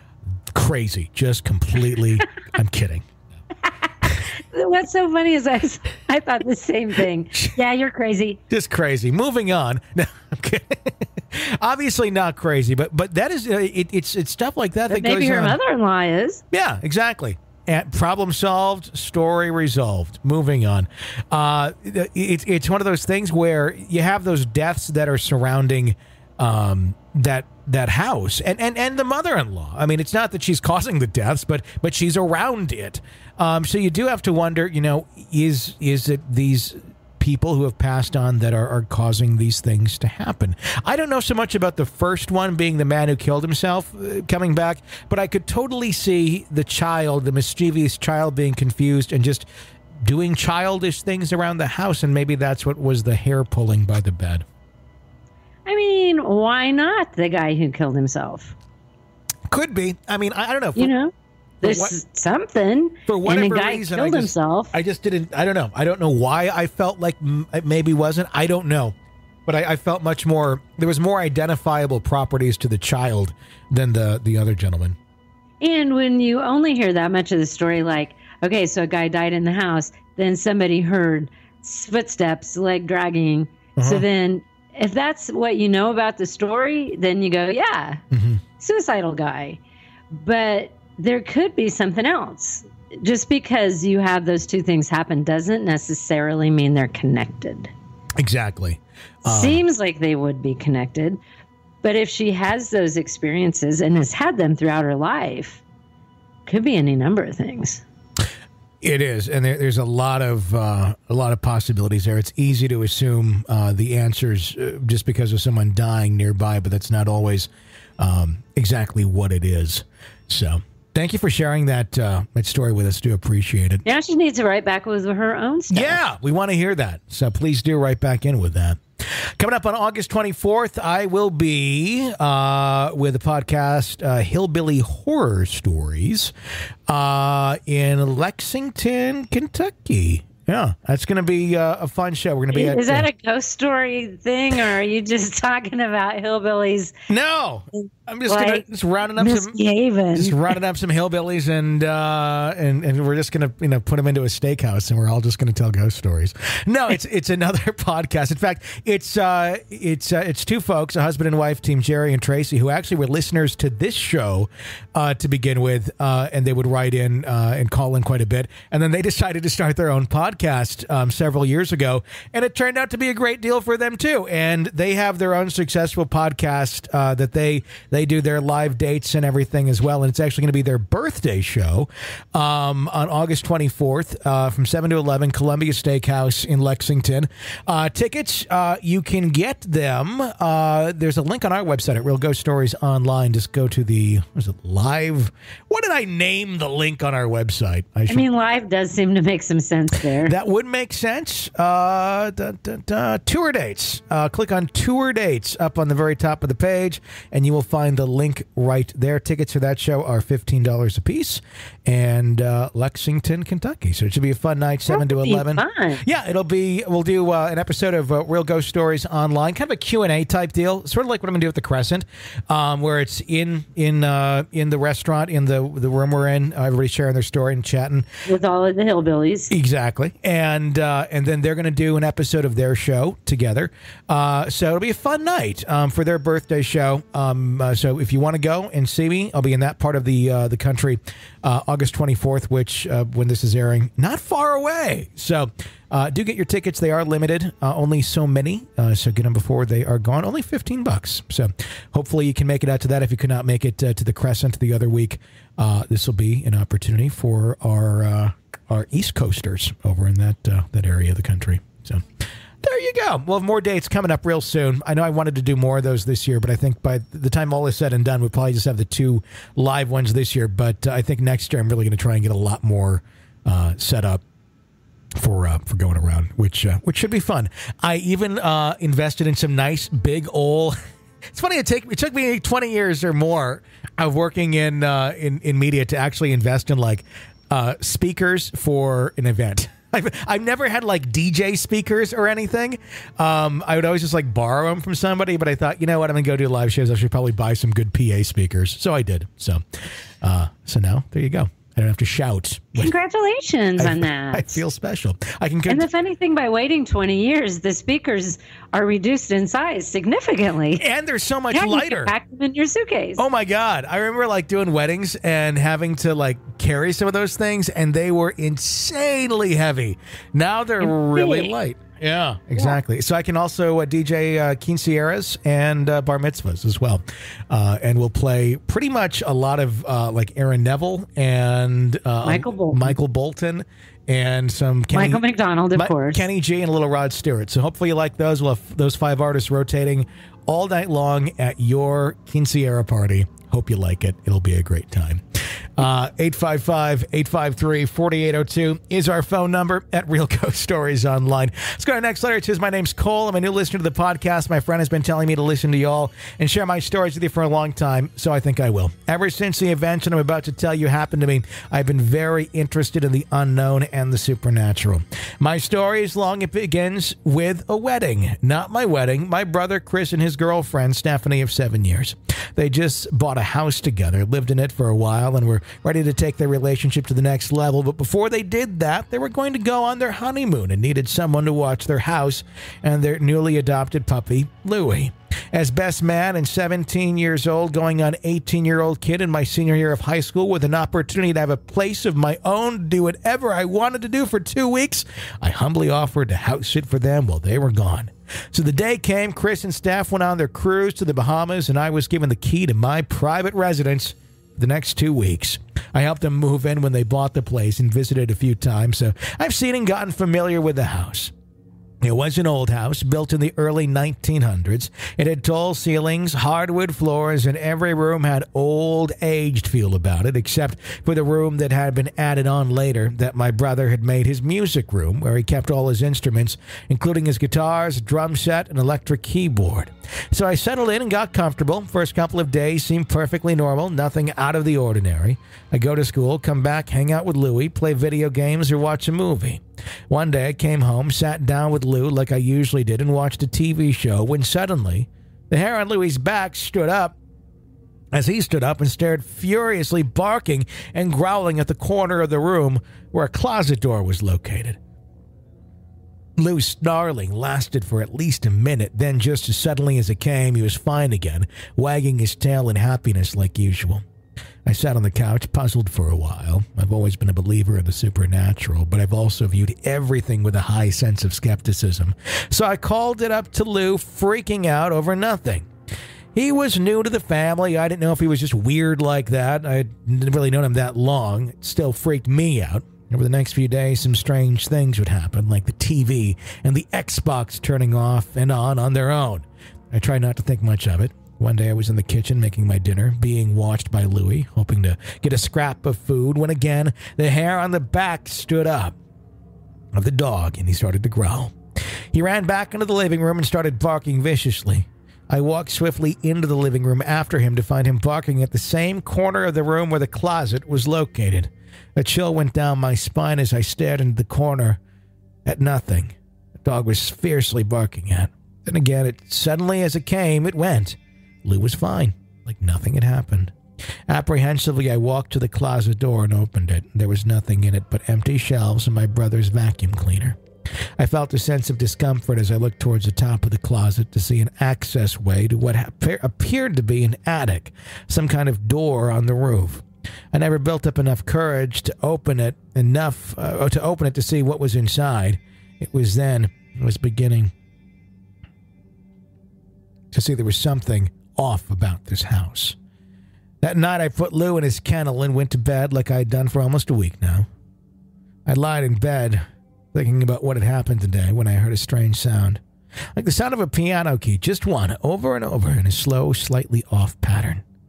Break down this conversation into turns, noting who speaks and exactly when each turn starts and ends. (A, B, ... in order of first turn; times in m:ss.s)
0:00.5-0:03.0 A
0:03.6-0:08.4 B
0:08.5-0:15.6 A
0:14.9-0:16.4 B
0:16.5-0:49.4 A
0:50.0-0:54.4 A
0:55.6-0:58.5 B
0:59.5-1:00.9 A
1:00.8-1:04.7 B
1:01.6-1:01.9 A
1:03.1-1:08.9 A
1:09.5-1:15.0 A
1:15.6-1:28.0 B
1:23.8-1:24.0 A
1:28.1-1:28.4 A
1:28.6-1:29.6 B
1:30.1-1:37.7 B
1:38.2-1:39.6 A
1:39.2-1:41.2 B
1:41.8-1:45.6 B
1:46.5-1:47.8 B
1:48.8-2:03.8 A
2:03.8-2:06.0 B
2:05.7-2:16.3 A
2:16.9-2:23.1 A
2:22.5-2:26.9 B
2:27.1-2:29.6 A
2:27.8-2:30.5 B
2:30.1-3:18.2 A
3:18.1-3:20.3 B
3:20.2-3:48.1 A
3:34.9-3:36.0 B
3:48.3-3:49.5 B
3:49.5-4:22.0 A
4:22.6-4:34.2 A
4:35.2-4:40.8 A
4:41.3-4:59.6 A
5:00.2-5:02.9 A
5:02.8-5:04.6 B
5:03.8-5:05.8 A
5:05.7-5:10.8 B
5:10.8-5:12.1 A
5:11.5-5:13.2 B
5:13.2-5:35.2 A
5:20.8-5:21.5 B
5:32.2-5:32.9 B
5:34.9-5:36.3 B
5:35.7-5:45.2 A
5:45.8-6:51.3 A
6:52.0-7:27.2 A
7:28.1-7:34.8 A
7:36.4-7:44.0 A
7:44.6-7:55.7 A
7:56.3-8:19.0 A
8:19.9-8:21.5 A
8:22.1-8:34.8 A
8:35.4-8:43.5 A
8:44.1-8:50.4 A
8:51.0-9:07.5 A
9:10.1-9:12.8 A
9:13.6-9:17.5 A
9:18.4-9:22.6 A
9:23.2-9:27.6 A